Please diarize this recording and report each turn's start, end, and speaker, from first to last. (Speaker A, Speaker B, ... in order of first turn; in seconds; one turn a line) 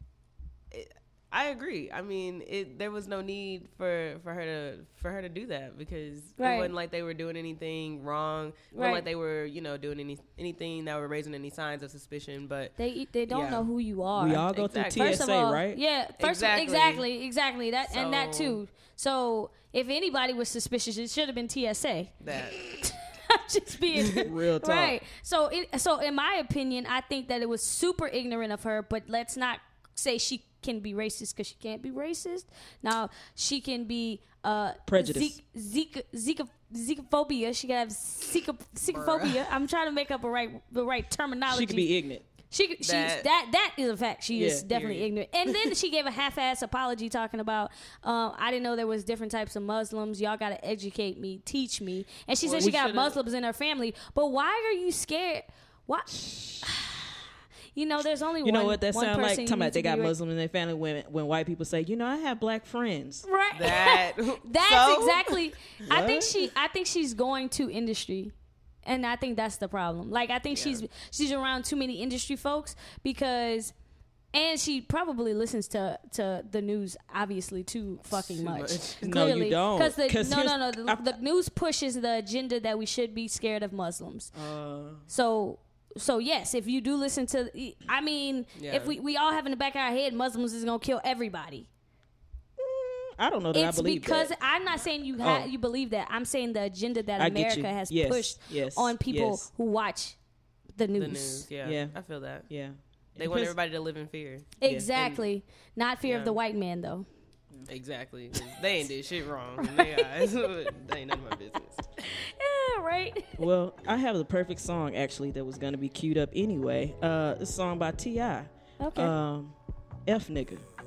Speaker A: 0.7-12.7
Speaker B: 6.4-6.7
Speaker B: 8.7-9.0
Speaker B: 12.8-41.9
Speaker A: 13.3-13.7
Speaker C: 14.2-15.8
Speaker A: 14.5-15.2
Speaker A: 16.2-17.1
Speaker A: 17.9-18.6
Speaker A: 22.2-22.6
Speaker C: 24.2-25.0
Speaker C: 34.9-35.4
Speaker A: 38.9-39.4
Speaker C: 41.5-42.2
Speaker B: 42.5-56.1
Speaker A: 42.8-43.3
Speaker C: 44.3-45.0
Speaker A: 52.4-53.2
Speaker C: 56.1-56.7
Speaker B: 56.6-56.9
Speaker B: 57.7-60.1
Speaker C: 58.4-63.3
Speaker B: 63.2-68.3
Speaker A: 63.5-65.5
Speaker C: 65.8-66.5
Speaker B: 68.8-73.7
Speaker A: 70.5-70.8
Speaker B: 74.3-84.3
Speaker A: 78.1-79.0
Speaker C: 79.0-81.2
Speaker C: 84.3-85.1
Speaker B: 85.1-91.7
Speaker A: 88.5-89.0
Speaker C: 92.6-94.3
Speaker B: 93.5-100.2
Speaker C: 95.2-95.5
Speaker C: 97.2-99.5
Speaker B: 100.8-101.5
Speaker A: 100.9-102.5
Speaker C: 101.6-102.0
Speaker C: 102.5-103.5
Speaker A: 103.2-104.5
Speaker B: 104.6-107.0
Speaker C: 104.6-105.2
Speaker A: 106.0-106.4
Speaker A: 107.7-111.8
Speaker B: 109.6-110.1
Speaker B: 112.1-113.3
Speaker C: 113.4-119.5
Speaker B: 118.8-119.1
Speaker C: 120.0-120.6